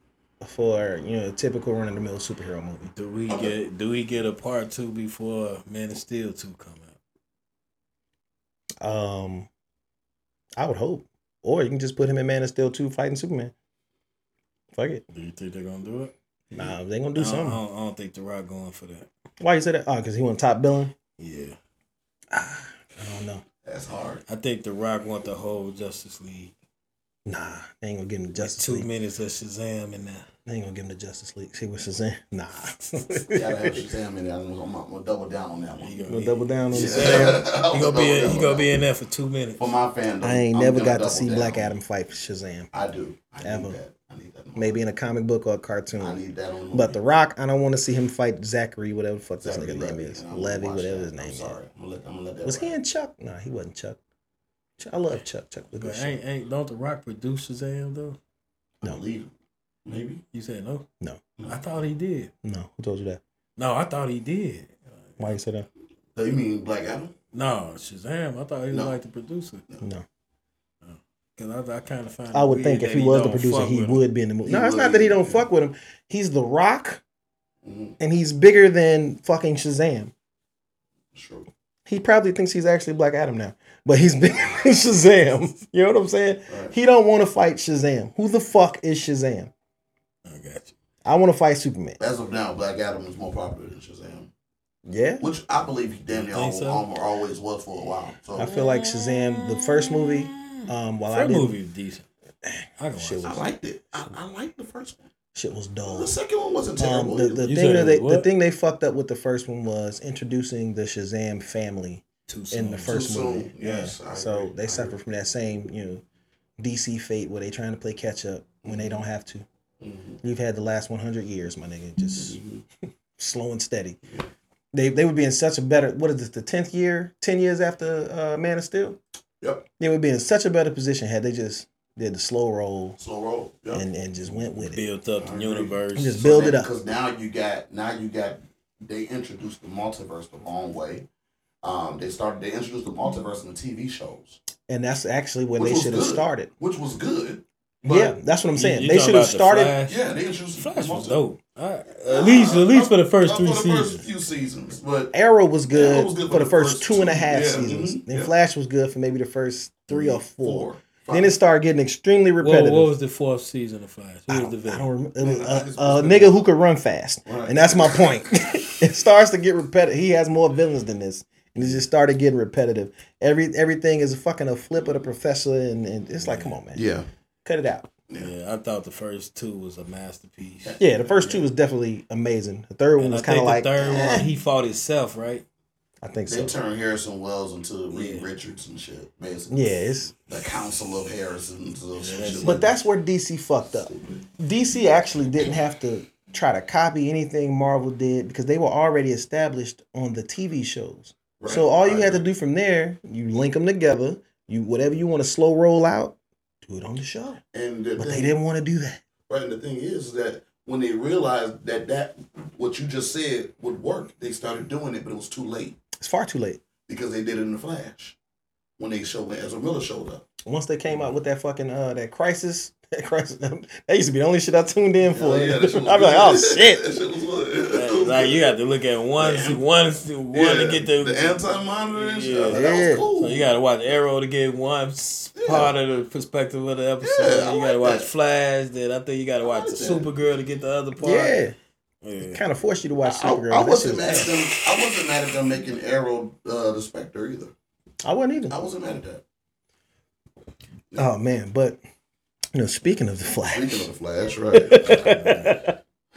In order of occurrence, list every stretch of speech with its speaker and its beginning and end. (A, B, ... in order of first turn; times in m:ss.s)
0:00.4-0:02.9 A
0:02.9-0:07.0 B
0:03.3-0:03.5 C
0:08.8-0:09.5 A
0:10.6-0:13.5 A
0:14.7-0:15.0 A
0:15.1-0:16.1 B
0:16.5-0:17.6 A
0:17.2-0:19.1 B
0:19.4-0:20.9 A
0:21.2-0:21.6 B
0:22.3-0:23.4 A
0:23.6-0:24.2 C
0:24.3-0:26.5 B
0:27.2-0:28.9 A
0:28.4-0:30.2 B
0:30.4-0:33.8 A
0:33.3-0:36.0 C
0:35.8-0:39.7 B
0:36.1-0:37.4 A
0:36.7-0:38.7 C
0:39.6-0:41.8 C
0:40.2-0:42.7 A
0:42.7-0:44.8 C
0:43.4-0:43.8 A
0:44.6-0:46.2 A
0:46.0-0:47.0 C
0:46.7-0:51.6 A
0:49.4-0:52.8 C
0:52.4-0:54.0 A
0:54.8-0:56.2 A
0:55.8-0:58.2 B
0:58.8-0:59.3 C
0:59.8-1:00.2 C
1:00.3-1:00.9 B
1:01.5-1:02.3 B
1:02.4-1:03.2 A
1:03.6-1:05.4 B
1:05.2-1:05.7 A
1:06.1-1:07.1 C
1:07.3-1:09.6 B
1:10.8-1:14.0 B
1:12.3-1:17.0 A
1:14.4-1:15.4 C
1:17.6-1:18.0 C
1:18.0-1:20.1 A
1:21.1-1:21.5 C
1:21.8-1:29.5 A
1:26.5-1:26.7 C
1:30.2-1:30.7 B
1:31.0-1:32.0 A
1:32.0-1:34.3 C
1:34.8-1:35.2 A
1:35.2-1:38.5 C
1:36.3-1:36.9 B
1:38.4-1:41.6 A
1:38.4-1:42.0 B
1:42.8-1:43.4 B
1:43.0-1:43.4 A
1:43.2-1:45.1 C
1:45.3-1:46.1 A
1:45.8-1:47.5 C
1:46.8-1:56.0 A
1:47.4-1:48.3 B
1:52.3-1:53.0 B
1:52.8-1:55.0 C
1:56.6-1:59.4 A
1:58.6-1:58.9 C
1:59.8-2:00.2 C
2:00.2-2:02.4 A
2:02.2-2:02.6 C
2:03.2-2:04.0 A
2:04.7-2:09.0 A
2:09.4-2:09.6 C
2:09.8-2:13.0 A
2:13.0-2:13.8 C
2:13.7-2:14.8 A
2:14.6-2:16.3 B
2:15.2-2:21.0 C
2:15.9-2:16.7 A
2:21.6-2:24.4 C
2:24.7-2:26.5 A
2:25.6-2:28.2 C
2:27.8-2:29.8 A
2:28.5-2:30.0 B
2:29.8-2:31.2 C
2:30.6-2:34.0 B
2:32.0-2:35.1 C
2:35.1-2:42.9 A
2:35.7-2:38.3 C
2:39.9-2:41.3 C
2:42.4-2:44.9 B
2:44.3-2:56.8 A
2:45.2-2:46.5 C
2:47.2-2:48.2 C
2:56.2-2:56.6 B
2:56.7-2:57.0 C
2:57.4-2:57.9 A
2:58.2-3:01.4 B
3:00.6-3:01.4 C
3:00.8-3:04.3 A
3:03.0-3:05.4 B
3:06.0-3:06.5 A
3:06.3-3:12.7 C
3:07.9-3:08.3 B
3:09.5-3:10.1 A
3:12.0-3:12.7 B
3:12.4-3:27.4 A
3:13.7-3:14.2 C
3:21.4-3:22.2 C
3:27.5-3:28.3 C
3:28.0-3:29.0 A
3:29.3-3:35.8 C
3:36.0-3:36.6 A
3:36.8-3:38.2 C
3:38.8-3:40.2 C
3:40.4-3:46.9 A
3:45.0-3:48.5 C
3:47.7-4:01.4 B
3:49.2-3:49.6 C
3:50.3-3:53.5 C
3:52.5-3:53.0 A
3:55.4-3:55.7 C
3:57.0-3:58.1 C
3:59.4-4:00.1 C
4:01.0-4:01.5 A
4:02.0-4:02.4 B
4:02.2-4:04.4 A
4:03.0-4:07.5 C
4:08.0-4:08.5 A
4:08.5-4:09.2 C
4:11.0-4:11.8 A
4:12.5-4:13.9 A
4:13.5-4:15.0 C
4:14.5-4:15.8 A
4:14.8-4:15.6 B